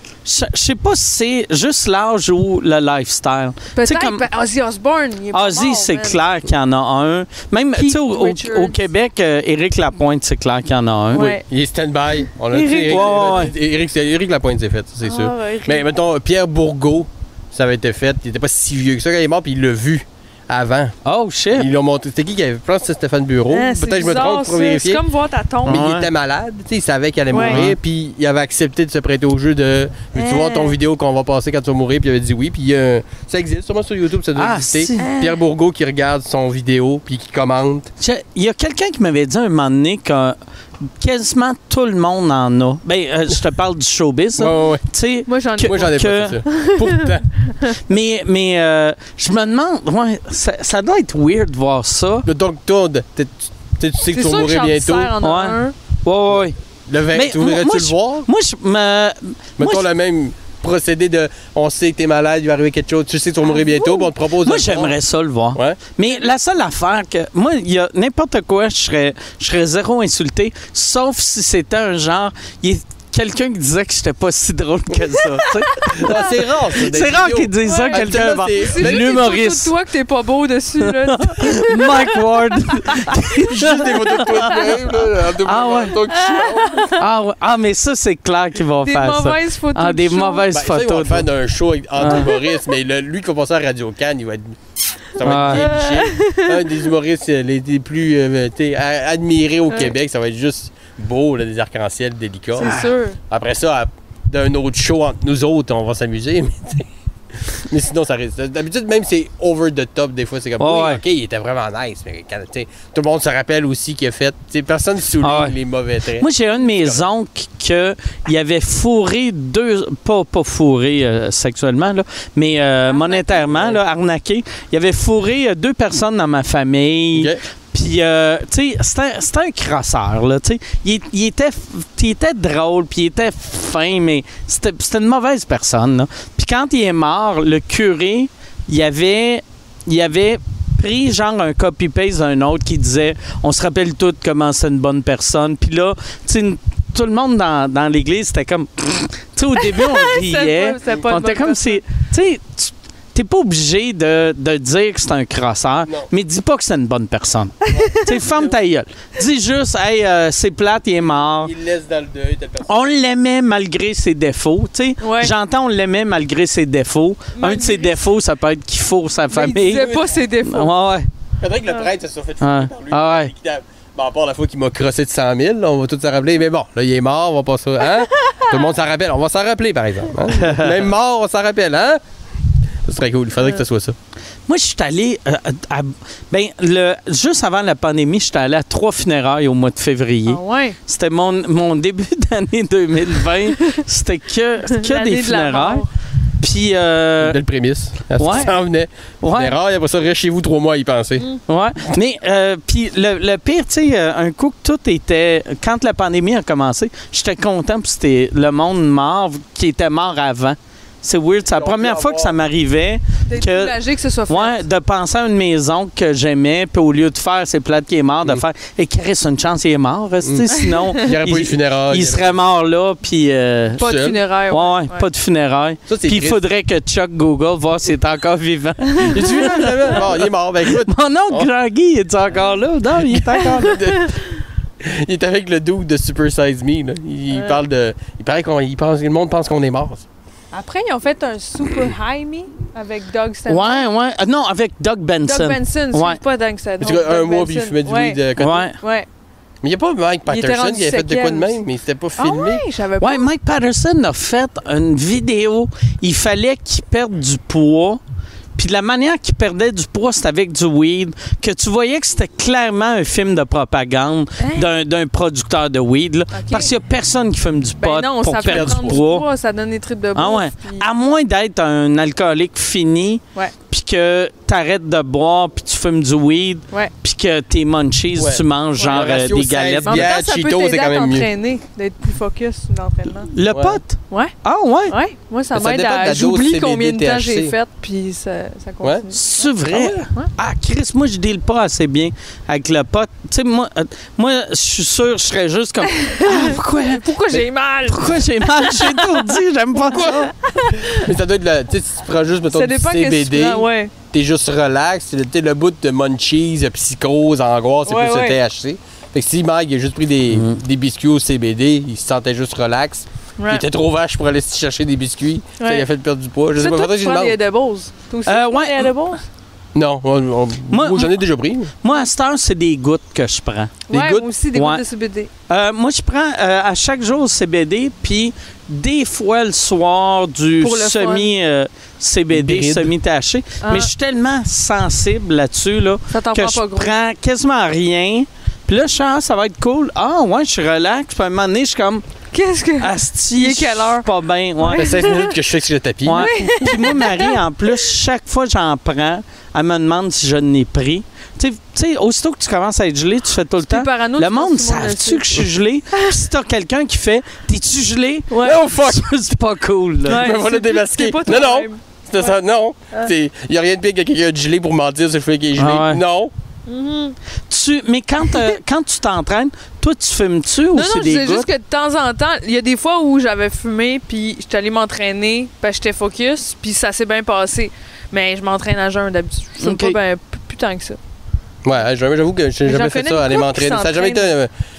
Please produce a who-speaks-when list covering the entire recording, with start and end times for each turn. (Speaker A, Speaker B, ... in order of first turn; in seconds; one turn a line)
Speaker A: 0.2-4.2
Speaker B: 3.7-6.2
Speaker A: 5.3-11.3
Speaker B: 7.8-8.8
Speaker B: 11.1-11.4
Speaker C: 11.4-20.9
Speaker A: 12.5-13.5
Speaker B: 12.6-13.4
Speaker B: 15.0-15.8
Speaker A: 21.0-21.7
Speaker C: 21.5-25.0
Speaker B: 23.5-25.8
Speaker A: 25.6-26.1
Speaker C: 25.6-37.9
Speaker B: 27.3-27.6
Speaker A: 27.4-27.8
Speaker B: 30.1-30.8
Speaker A: 34.4-35.1
Speaker B: 35.0-35.4
Speaker A: 38.0-40.3
Speaker A: 41.0-46.4
Speaker C: 44.4-44.8
Speaker B: 45.3-45.8
Speaker C: 45.6-47.2
Speaker B: 46.4-47.8
Speaker A: 47.9-52.3
Speaker C: 52.2-55.1
Speaker B: 54.1-55.7
Speaker A: 55.2-56.5
Speaker C: 56.9-58.3
Speaker A: 57.1-59.9
Speaker C: 59.6-65.0
Speaker B: 63.5-64.1
Speaker A: 64.4-79.7
Speaker C: 65.5-65.8
Speaker C: 75.9-79.1
Speaker B: 77.6-82.2
Speaker A: 80.8-86.0
Speaker B: 82.7-83.3
Speaker C: 83.5-86.9
Speaker B: 86.1-87.0
Speaker A: 87.0-91.3
Speaker B: 88.8-90.5
Speaker C: 90.5-94.6
Speaker A: 92.0-92.3
Speaker C: 95.1-106.9
Speaker A: 95.2-95.7
Speaker B: 95.5-96.8
Speaker B: 102.5-103.2
Speaker A: 102.6-102.9
Speaker C: 107.4-117.0
Speaker A: 110.6-111.0
Speaker A: 115.2-115.5
Speaker A: 116.2-161.5
Speaker B: 122.9-123.4
Speaker C: 127.1-127.4
Speaker B: 149.6-151.8
Speaker C: 157.7-158.6
Speaker C: 161.4-162.7
Speaker A: 162.7-169.9
Speaker B: 165.0-165.3
Speaker B: 167.3-167.9
Speaker B: 169.3-170.7
Speaker C: 169.7-170.2
Speaker A: 170.4-171.1
Speaker C: 171.4-182.0
Speaker A: 172.4-173.3
Speaker B: 178.1-178.5
Speaker A: 180.3-180.8
Speaker C: 182.8-183.9
Speaker A: 184.5-195.8
Speaker B: 190.3-190.8
Speaker B: 194.7-195.9
Speaker A: 196.4-197.4
Speaker C: 197.2-201.3
Speaker A: 198.2-198.5
Speaker A: 199.2-199.6
Speaker A: 201.5-213.7
Speaker C: 211.5-212.3
Speaker B: 213.3-214.6
Speaker A: 214.3-223.9
Speaker B: 220.5-220.9
Speaker C: 221.0-222.3
Speaker B: 223.8-225.1
Speaker C: 223.8-224.2
Speaker A: 224.5-230.2
Speaker C: 225.9-226.4
Speaker C: 229.0-231.5
Speaker A: 230.7-233.8
Speaker C: 233.1-234.1
Speaker B: 233.6-234.2
Speaker C: 234.8-240.1
Speaker B: 237.3-237.6
Speaker B: 240.5-243.8
Speaker A: 243.5-246.2
Speaker B: 245.2-249.1
Speaker C: 246.8-248.6
Speaker A: 248.4-248.8
Speaker C: 249.6-252.6
Speaker B: 250.3-251.6
Speaker B: 252.2-253.2
Speaker A: 253.0-258.0
Speaker A: 258.6-269.2
Speaker B: 264.4-264.7
Speaker B: 266.3-266.7
Speaker B: 267.8-270.9
Speaker C: 268.4-269.0
Speaker A: 270.1-280.1
Speaker C: 278.1-281.3
Speaker B: 278.8-279.1
Speaker B: 279.8-283.3
Speaker A: 283.3-284.9
Speaker C: 283.5-283.8
Speaker B: 284.9-289.5
Speaker C: 285.5-287.5
Speaker A: 289.1-297.0
Speaker B: 290.0-290.3
Speaker B: 295.9-301.1
Speaker A: 297.9-300.3
Speaker C: 300.9-317.4
Speaker B: 302.5-303.9
Speaker B: 307.9-308.4
Speaker B: 313.4-313.6
Speaker B: 315.6-315.8
Speaker B: 316.6-319.2
Speaker A: 318.3-318.9
Speaker C: 319.7-321.7
Speaker A: 320.7-321.2
Speaker A: 321.8-323.9
Speaker B: 323.9-325.3
Speaker C: 323.9-324.3
Speaker A: 324.5-324.8
Speaker A: 325.5-342.0
Speaker B: 330.6-331.3
Speaker C: 332.3-332.9
Speaker B: 333.6-333.9
Speaker B: 336.1-336.9
Speaker B: 342.3-344.1
Speaker A: 342.8-345.1
Speaker B: 344.6-345.3
Speaker C: 344.7-347.0
Speaker A: 346.1-360.3
Speaker B: 346.1-347.9
Speaker B: 353.6-355.4
Speaker B: 358.3-358.6
Speaker C: 358.4-359.3
Speaker C: 360.0-366.3
Speaker B: 360.1-362.3
Speaker A: 365.6-366.0
Speaker B: 366.7-367.1
Speaker A: 367.5-371.5
Speaker B: 370.7-381.0
Speaker A: 379.6-380.0
Speaker C: 381.6-384.5
Speaker B: 382.6-384.3